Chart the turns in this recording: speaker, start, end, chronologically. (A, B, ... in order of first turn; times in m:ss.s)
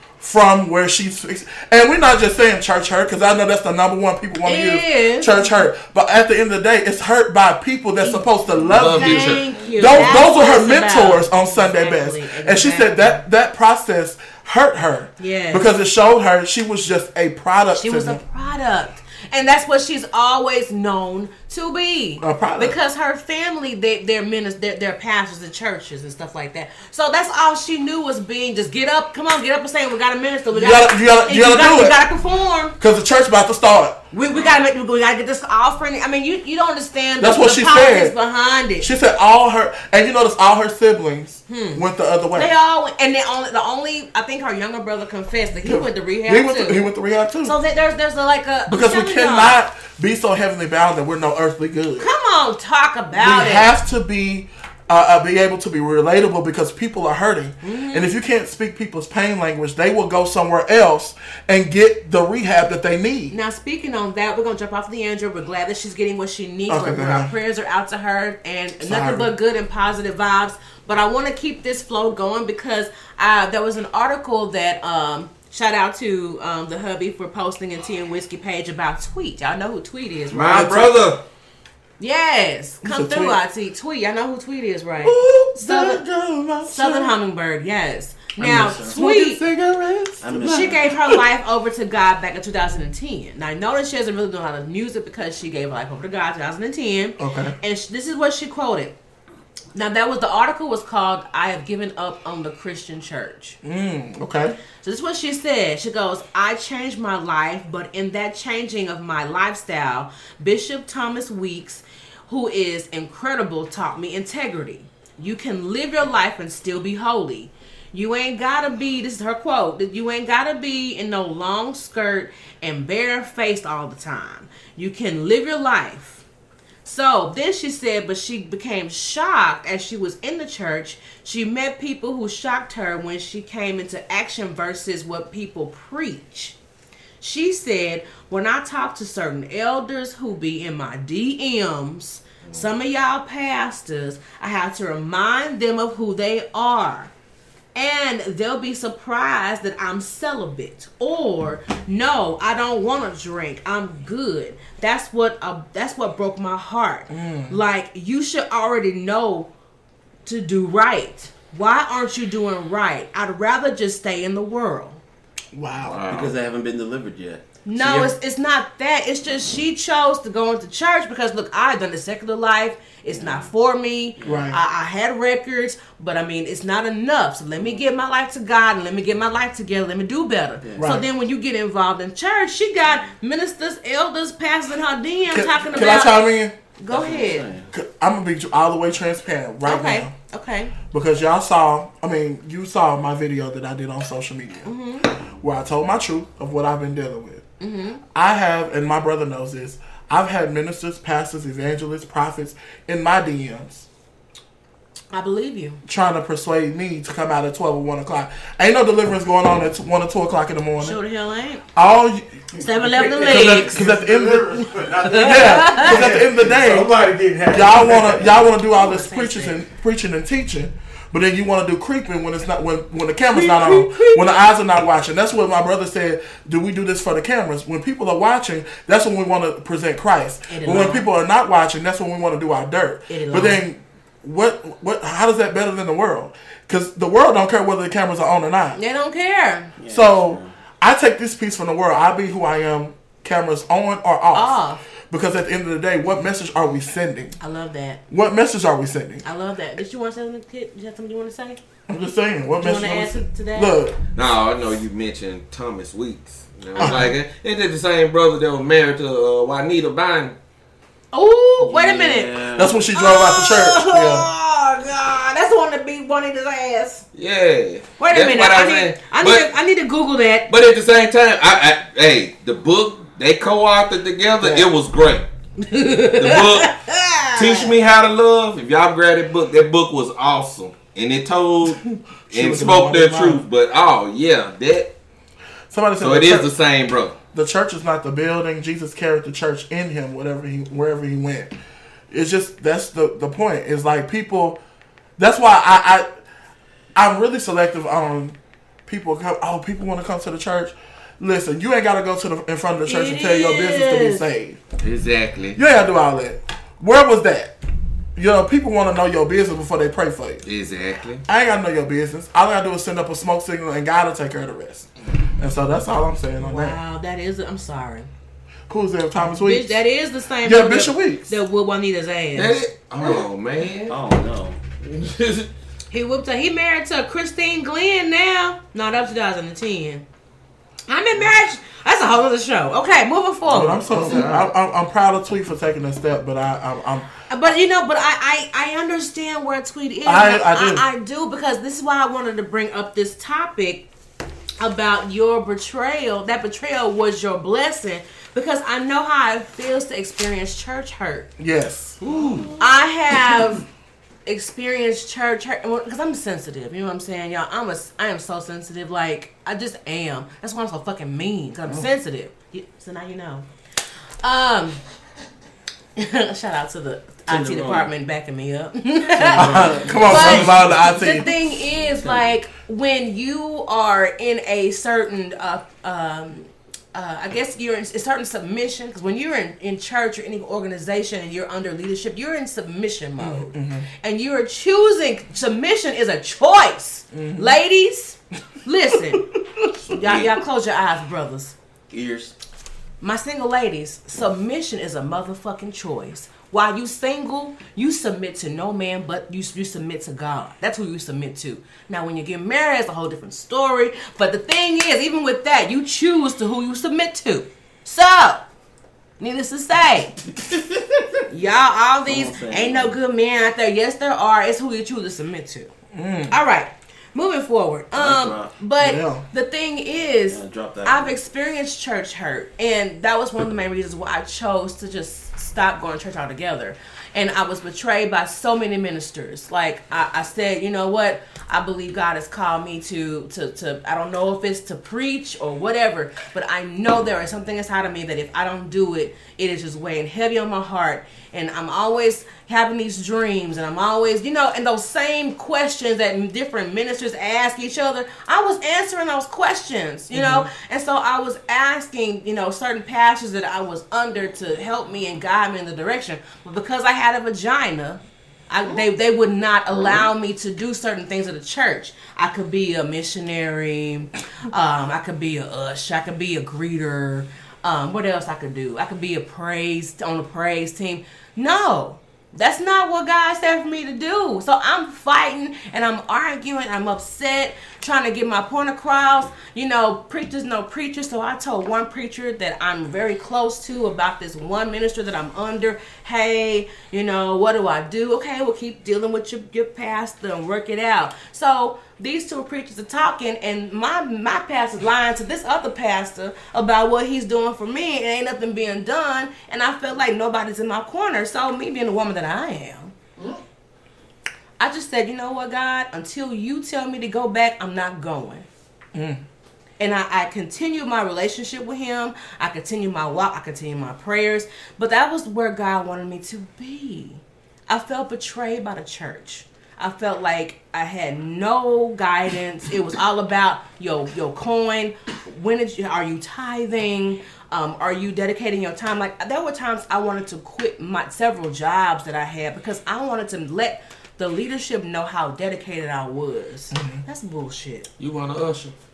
0:00.2-0:18.2 A
0:04.4-0:05.5 B
0:08.6-0:10.1 C
0:08.9-0:13.2 B
0:15.2-0:15.6 B
0:17.7-0:32.7 B
0:22.2-0:22.8 A
0:30.5-0:32.0 A
0:32.8-0:34.0 A
0:34.1-0:38.9 B
0:37.2-0:38.1 A
0:38.8-0:42.5 A
0:41.5-0:41.8 B
0:42.3-0:46.8 B
0:45.6-0:47.5 A
0:47.4-0:49.6 B
0:48.7-0:52.1 A
0:52.0-0:53.7 B
0:53.1-1:03.3 A
0:57.6-0:58.1 B
1:03.3-1:20.8 B
1:06.7-1:07.3 A
1:08.8-1:09.3 A
1:20.3-1:21.2 C
1:20.4-1:21.2 A
1:22.0-1:26.0 B
1:22.8-1:23.4 A
1:25.0-1:27.2 A
1:26.6-1:29.4 B
1:28.4-1:28.9 D
1:28.5-1:31.2 A
1:30.2-1:30.8 D
1:30.4-1:39.0 B
1:37.2-1:37.5 A
1:39.7-1:43.6 B
1:43.6-1:44.6 A
1:44.8-2:06.2 B
2:06.8-2:16.6 B
2:17.2-2:27.1 B
2:27.7-2:39.5 B
2:37.1-2:37.6 A
2:40.2-2:45.0 B
2:45.5-2:46.0 A
2:45.8-2:46.3 C
2:46.1-2:48.1 D
2:47.6-3:06.2 B
2:53.1-2:53.5 D
2:54.2-2:54.6 A
3:00.6-3:00.9 D
3:00.8-3:01.1 A
3:05.3-3:06.5 A
3:06.8-3:07.5 B
3:06.9-3:07.7 D
3:07.7-3:10.1 A
3:09.6-3:10.7 B
3:10.9-3:14.7 A
3:14.6-3:15.1 B
3:15.4-3:17.4 A
3:17.6-3:18.0 B
3:18.1-3:23.8 A
3:25.1-3:25.8 B
3:25.8-3:31.0 A
3:30.8-3:31.6 B
3:31.7-3:32.3 A
3:32.6-3:33.8 B
3:32.6-3:38.5 E
3:32.9-3:36.9 A
3:35.0-3:36.0 B
3:37.4-3:58.8 A
3:38.7-3:39.6 B
3:43.3-3:44.3 B
3:50.5-3:51.1 B
3:53.1-3:53.6 B
3:58.7-3:59.7 B
3:59.8-4:00.5 D
3:59.9-4:04.6 A
4:04.3-4:04.8 B
4:05.1-4:07.4 A
4:07.4-4:08.0 B
4:08.1-4:09.2 A
4:09.2-4:11.6 B
4:11.9-4:14.0 A
4:12.6-4:13.8 B
4:14.1-4:20.4 C
4:16.8-4:17.0 B
4:16.8-4:17.1 A
4:21.1-4:22.4 B
4:21.6-4:22.7 D
4:22.6-4:24.3 A
4:22.9-4:27.0 B
4:27.1-4:29.5 C
4:28.0-4:30.5 B
4:30.5-4:35.3 C
4:34.4-4:34.7 A
4:35.6-4:37.7 B
4:36.2-4:36.8 C
4:37.3-4:44.9 C
4:41.6-4:43.4 A
4:45.7-4:46.5 A
4:46.0-4:47.2 C
4:47.3-4:51.5 A
4:52.1-4:54.6 A
4:55.2-4:56.1 A
4:56.9-5:04.6 A
5:02.9-5:04.2 B
5:04.8-5:05.6 C
5:05.5-5:07.5 A
5:08.1-5:10.4 A
5:10.4-5:11.2 C
5:11.2-5:16.8 A
5:16.4-5:18.1 B
5:18.7-5:19.8 A
5:19.4-5:22.6 B
5:20.4-5:21.3 A
5:22.3-5:24.0 C
5:23.9-5:24.6 D
5:24.8-5:25.5 C
5:25.9-5:30.0 B
5:30.9-5:33.9 B
5:33.5-5:37.1 A
5:33.9-5:34.5 C
5:33.9-5:34.3 D
5:37.3-5:43.9 B
5:40.0-5:40.8 A
5:44.6-5:51.3 B
5:51.4-5:52.0 A
5:52.0-5:52.6 C
5:52.6-5:53.6 B
5:54.2-6:03.5 B
6:04.2-6:04.8 B
6:06.0-6:29.3 B
6:07.3-6:07.9 D
6:09.1-6:11.3 A
6:09.3-6:10.7 D
6:11.8-6:12.3 D
6:23.2-6:23.9 A
6:27.1-6:27.6 A
6:29.1-6:30.0 A
6:29.9-6:31.5 B
6:31.9-6:32.3 D
6:33.0-6:48.4 B
6:49.2-6:50.2 B
6:50.4-6:51.2 D
6:51.3-6:55.7 B
6:52.1-6:52.9 D
6:55.9-6:56.3 A
6:56.3-8:22.9 B
6:58.0-6:58.5 D
6:58.8-6:59.2 A
7:00.3-7:01.2 D
7:30.1-7:30.5 A
8:24.6-8:28.4 B
8:28.9-8:29.2 A
8:29.8-8:57.9 B
8:56.7-8:57.0 A
8:58.0-8:58.7 C